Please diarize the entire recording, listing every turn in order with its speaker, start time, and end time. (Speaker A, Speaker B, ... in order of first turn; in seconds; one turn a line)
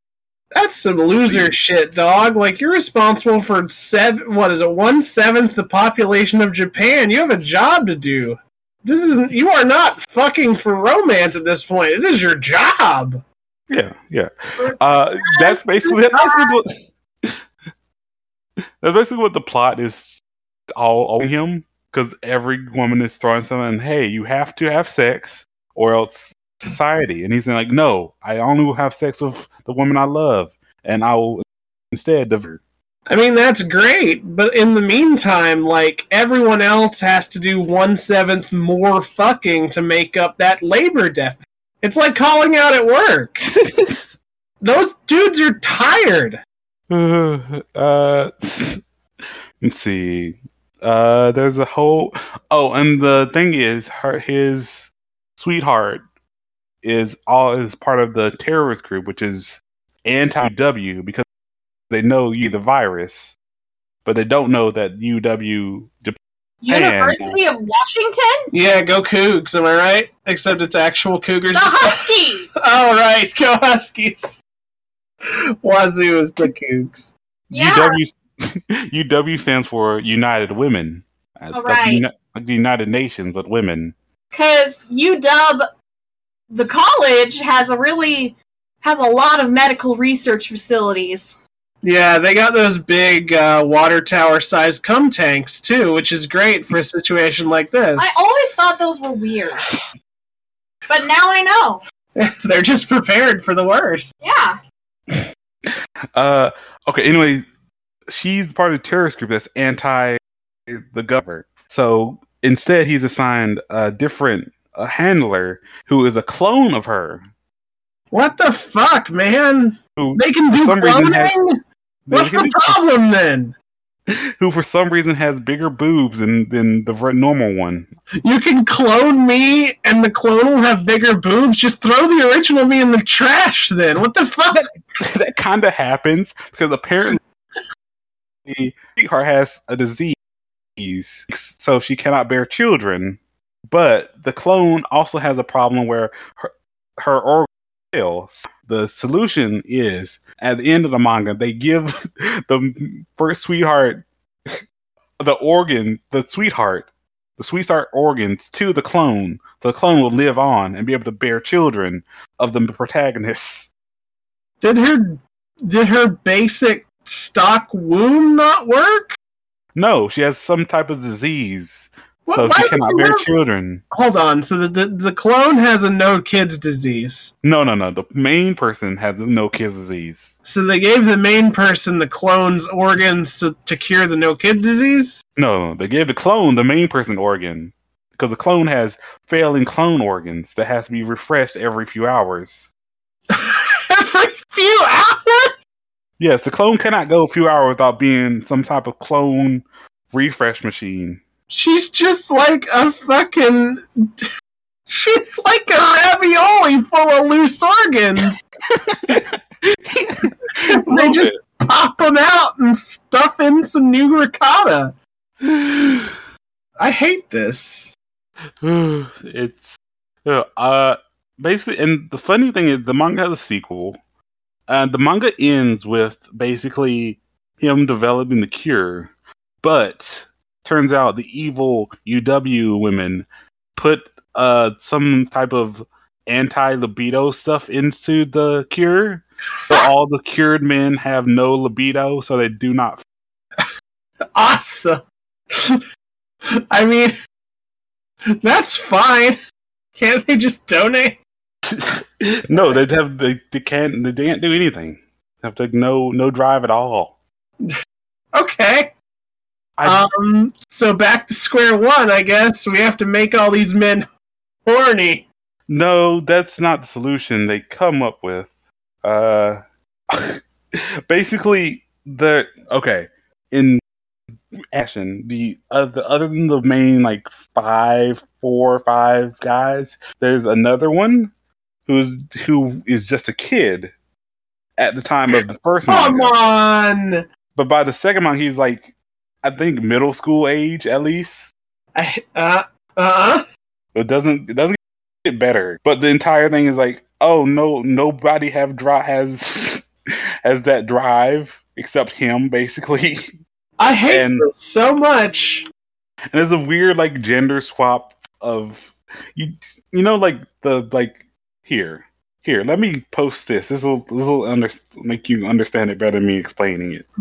Speaker A: 0.5-13.2
Speaker B: 1.2-1.6
Speaker B: 13.7-16.7
Speaker C: 14.6-15.6
Speaker C: 16.1-16.4
Speaker B: 18.8-32.6
Speaker A: 33.1-43.4
Speaker B: 43.6-44.0
Speaker A: 44.6-46.4
Speaker B: 46.9-48.9
Speaker B: 49.6-56.0
Speaker B: 56.8-61.2
Speaker B: 61.9-63.3
Speaker B: 64.0-67.4
Speaker C: 66.6-68.5
Speaker A: 68.5-74.4
Speaker C: 71.5-72.6
Speaker A: 75.6-77.2
Speaker C: 77.5-78.0
Speaker B: 77.5-84.0
Speaker C: 81.5-82.0
Speaker C: 84.3-85.7
Speaker C: 86.5-91.4
Speaker A: 91.8-98.2
Speaker C: 98.0-99.8
Speaker C: 100.9-101.8
Speaker A: 102.2-104.1
Speaker C: 104.2-104.6
Speaker B: 106.2-107.4
Speaker B: 108.1-117.2
Speaker A: 118.1-121.6
Speaker B: 120.0-121.3
Speaker B: 122.1-122.8
Speaker A: 122.1-123.6
Speaker B: 124.1-127.9
Speaker A: 128.2-134.7
Speaker B: 135.0-137.2
Speaker B: 138.5-140.2
Speaker B: 140.8-154.6
Speaker B: 155.2-163.7
Speaker A: 164.6-169.1
Speaker B: 169.8-173.8
Speaker A: 172.3-173.3
Speaker A: 173.9-177.3
Speaker B: 177.4-180.3
Speaker A: 180.4-185.2
Speaker B: 185.4-192.7
Speaker A: 193.3-195.5
Speaker B: 196.2-201.2
Speaker A: 201.5-204.3
Speaker A: 204.9-208.4
Speaker B: 208.8-211.4
Speaker A: 210.7-214.9
Speaker B: 215.4-216.1
Speaker A: 216.8-217.9
Speaker B: 218.6-224.0
Speaker B: 224.7-229.1
Speaker B: 229.6-243.0
Speaker A: 244.3-245.8
Speaker A: 246.7-247.1
Speaker A: 248.4-249.4
Speaker A: 250.0-251.2
Speaker B: 251.7-257.2
Speaker A: 252.5-252.8
Speaker A: 258.3-258.9
Speaker B: 259.8-260.0
Speaker A: 259.8-264.1
Speaker A: 264.7-265.3
Speaker B: 265.7-268.5
Speaker B: 269.0-270.4
Speaker B: 271.1-273.8
Speaker B: 274.7-281.3
Speaker B: 281.9-283.9
Speaker B: 284.8-286.4
Speaker A: 285.9-287.2
Speaker B: 287.6-288.9
Speaker B: 289.4-291.5
Speaker A: 291.9-293.4
Speaker B: 293.9-299.9
Speaker B: 300.4-303.3
Speaker A: 303.8-305.7
Speaker B: 304.1-304.5
Speaker B: 306.3-317.1